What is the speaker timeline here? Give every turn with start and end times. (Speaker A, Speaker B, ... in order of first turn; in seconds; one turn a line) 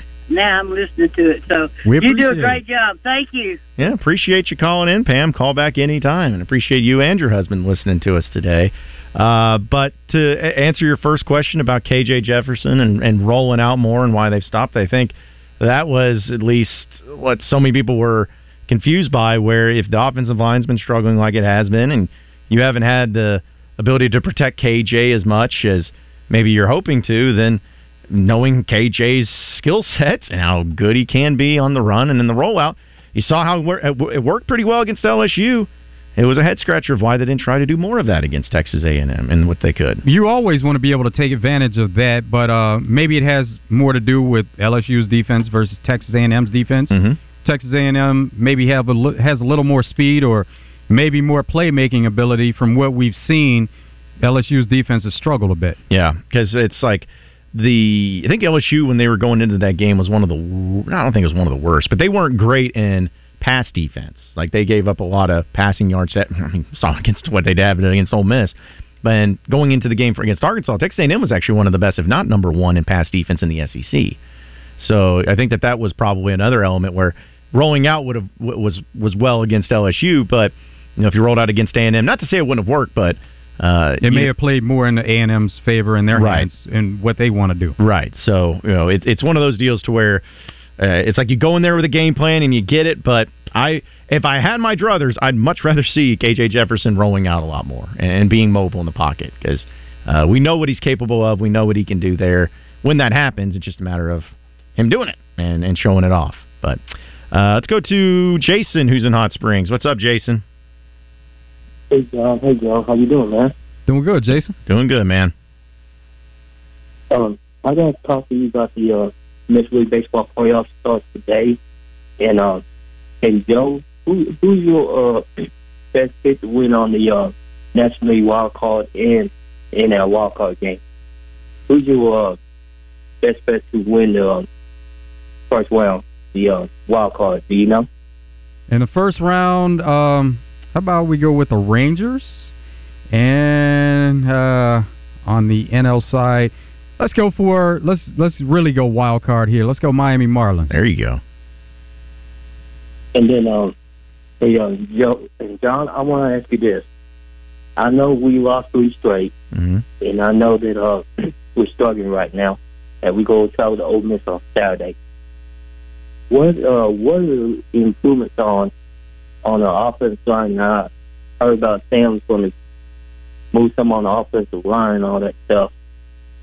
Speaker A: 0.3-3.6
Speaker B: 1.8-2.6
Speaker C: 3.8-40.0
Speaker B: 40.0-53.7
Speaker C: 46.9-47.2
Speaker B: 54.2-55.8
Speaker C: 55.9-74.2
Speaker C: 74.8-84.3
Speaker B: 84.0-87.8
Speaker C: 86.1-86.5
Speaker C: 87.8-90.2
Speaker C: 90.8-110.4
Speaker D: 111.9-113.5
Speaker B: 113.9-114.5
Speaker C: 114.7-115.3
Speaker D: 117.1-121.6
Speaker D: 122.2-122.6
Speaker D: 123.2-130.8
Speaker D: 131.7-132.3
Speaker D: 133.2-134.4
Speaker D: 135.5-137.8
Speaker B: 138.7-142.5
Speaker B: 143.1-150.8
Speaker C: 150.7-151.2
Speaker D: 153.1-153.7
Speaker D: 154.4-156.8
Speaker D: 157.8-159.3
Speaker C: 159.5-159.8
Speaker D: 160.0-164.9
Speaker D: 166.3-168.7
Speaker D: 169.4-170.9
Speaker D: 171.4-172.5
Speaker D: 173.5-175.7